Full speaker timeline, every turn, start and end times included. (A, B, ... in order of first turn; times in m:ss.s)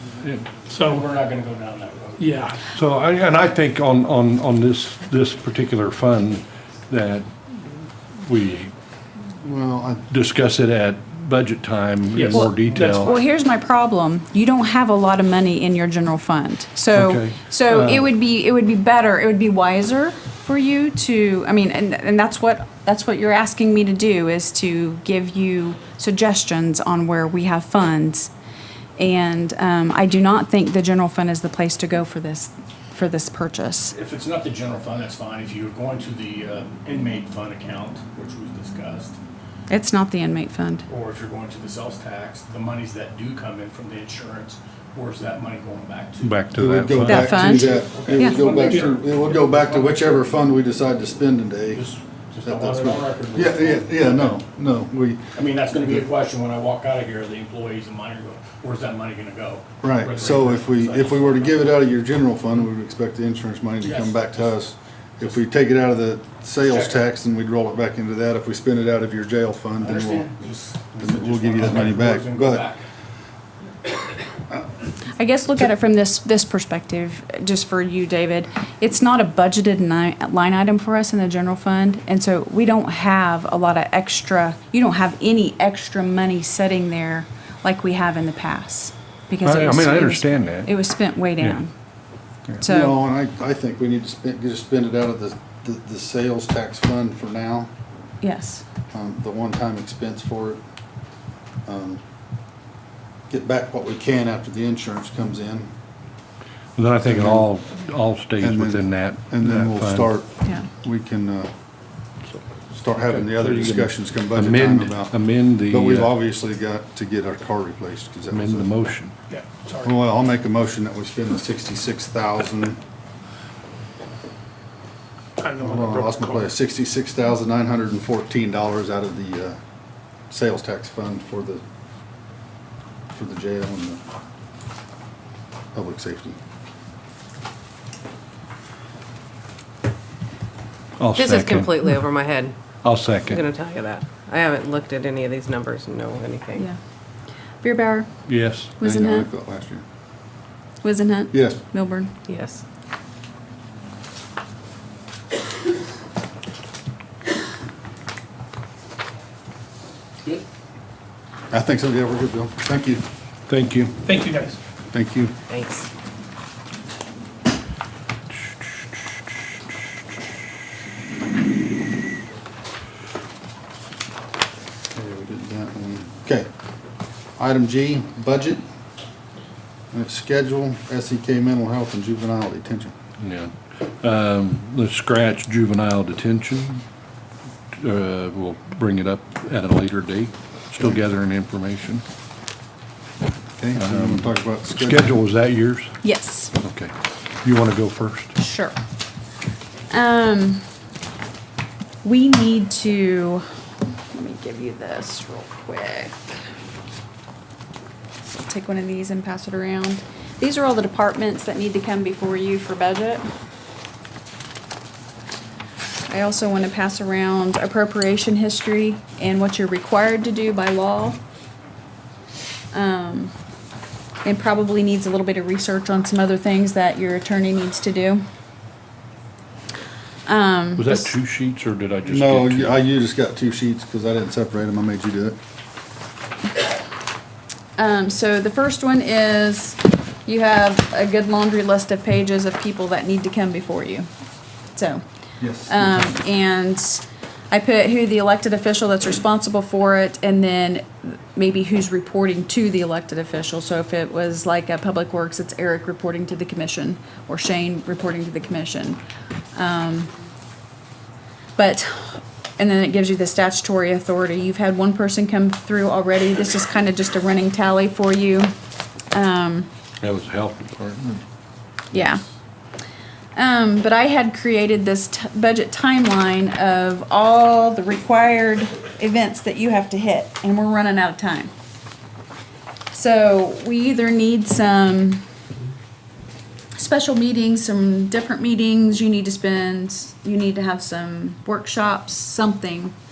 0:00.2-0:00.6 A
0:00.6-0:01.0 B
0:00.8-0:02.3 C
0:02.2-0:02.6 B
0:02.7-0:08.7 A
0:09.4-0:10.0 D
0:10.1-0:13.1 A
0:12.1-0:13.2 B
0:12.3-0:28.3 E
0:16.9-0:18.0 A
0:29.0-0:33.9 E
0:33.9-0:39.2 C
0:39.7-0:40.8 E
0:40.9-0:46.4 C
0:46.2-0:47.6 A
0:46.6-0:51.8 D
0:47.1-0:48.4 E
0:47.5-0:50.4 C
0:51.7-0:54.4 C
0:52.4-0:55.3 D
0:55.3-1:01.7 C
0:59.8-1:10.3 D
1:03.8-1:04.6 C
1:06.6-1:07.0 C
1:09.8-1:12.8 C
1:11.0-1:12.7 D
1:15.1-1:31.7 E
1:29.4-1:30.7 A
1:32.6-1:33.0 E
1:32.6-1:37.7 D
1:38.2-1:38.6 E
1:38.9-1:40.6 D
1:41.6-1:42.0 D
1:43.3-1:45.7 D
1:46.8-1:50.1 A
1:47.0-1:47.5 D
1:48.4-1:51.5 D
1:52.7-1:55.2 D
1:53.0-1:56.1 A
1:55.7-1:58.7 D
1:58.3-1:59.1 A
1:59.3-1:59.9 B
1:59.8-2:02.8 D
2:05.4-2:06.5 B
2:05.6-2:09.6 D
2:10.3-2:11.6 D
2:13.1-2:14.0 D
2:15.7-2:16.4 D
2:21.0-2:22.0 A
2:21.1-2:22.6 F
2:22.8-2:23.4 A
2:23.2-2:26.6 F
2:27.6-2:28.1 E
2:28.3-2:28.7 A
2:28.8-2:29.3 E
2:28.8-2:29.8 D
2:30.8-2:32.1 E
2:31.3-2:31.6 D
2:32.3-2:32.6 F
2:41.5-2:43.0 D
2:43.5-2:44.1 A
2:44.0-2:44.6 B
2:44.9-2:45.3 D
2:45.5-2:45.9 F
2:54.9-2:56.5 D
2:57.4-2:58.6 D
2:59.9-3:02.9 D
3:03.2-3:06.8 A
3:07.8-3:12.0 A
3:13.6-3:15.2 D
3:13.8-3:15.9 A
3:16.0-3:16.5 E
3:16.6-3:16.9 A
3:17.4-3:18.3 A
3:18.4-3:18.8 E
3:19.9-3:20.6 E
3:22.0-3:23.4 E
3:24.1-3:26.2 E
3:28.4-3:33.2 E
3:36.1-3:41.2 E
3:42.7-3:43.3 E
3:44.2-3:48.2 E
3:50.2-3:51.1 E
3:50.8-3:52.8 A
3:52.0-3:55.4 D
3:57.8-4:04.1 E
4:04.7-4:05.0 E
4:05.4-4:06.1 D
4:05.6-4:19.0 E
4:19.5-4:20.1 E
4:21.6-4:28.5 E
4:29.1-4:29.7 E
4:30.0-4:31.2 A
4:31.9-4:32.2 E
4:33.3-4:41.5 E
4:42.9-4:45.2 E
4:46.7-4:52.9 E